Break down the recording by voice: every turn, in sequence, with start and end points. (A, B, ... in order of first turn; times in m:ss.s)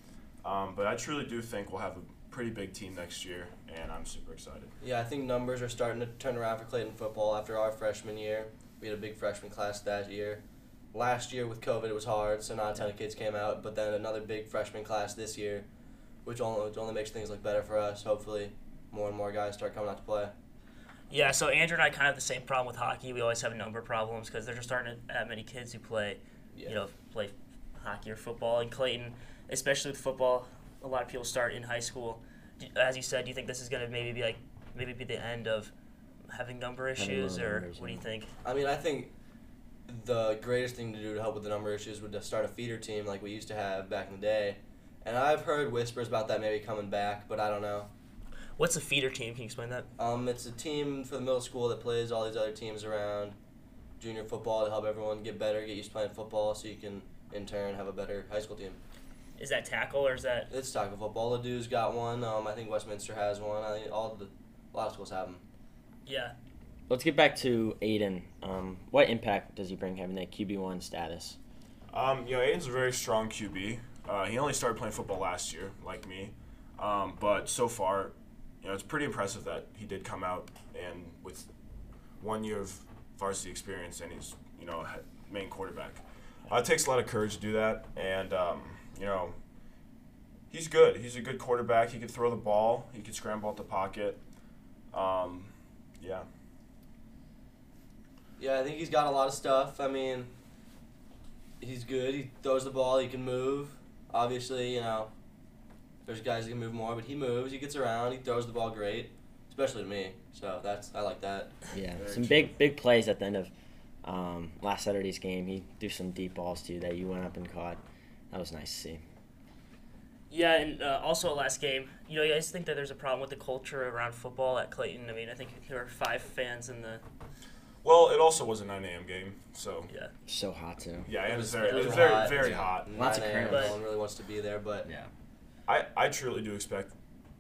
0:00.4-0:04.7 A
0:04.8-0:15.7 B
0:16.2-0:20.3 B
0:21.1-0:35.7 C
0:36.3-0:38.3 C
0:37.0-0:38.0 D
0:38.4-0:39.1 B
0:39.9-0:47.9 B
0:48.6-0:49.9 C
0:50.0-0:53.4 B
0:54.0-0:58.8 B
0:59.4-1:00.5 C
1:00.5-1:05.4 B
1:06.0-1:06.3 C
1:06.9-1:11.4 D
1:11.9-1:21.5 A
1:22.2-1:29.4 A
1:30.5-1:34.2 A
1:34.9-1:36.3 A
1:38.4-1:40.3 B
1:41.6-1:45.1 B
1:46.0-1:51.5 B
1:51.7-1:53.5 D
1:52.0-1:52.6 A
1:54.0-1:57.8 D
1:58.3-1:59.0 D
2:00.3-2:07.0 C
2:07.8-2:09.9 A
2:10.3-2:11.1 D
2:11.0-2:13.0 A
2:11.2-2:14.9 B
2:11.6-2:12.3 C
2:12.3-2:13.8 D
2:13.5-2:13.8 C
2:15.6-2:16.9 A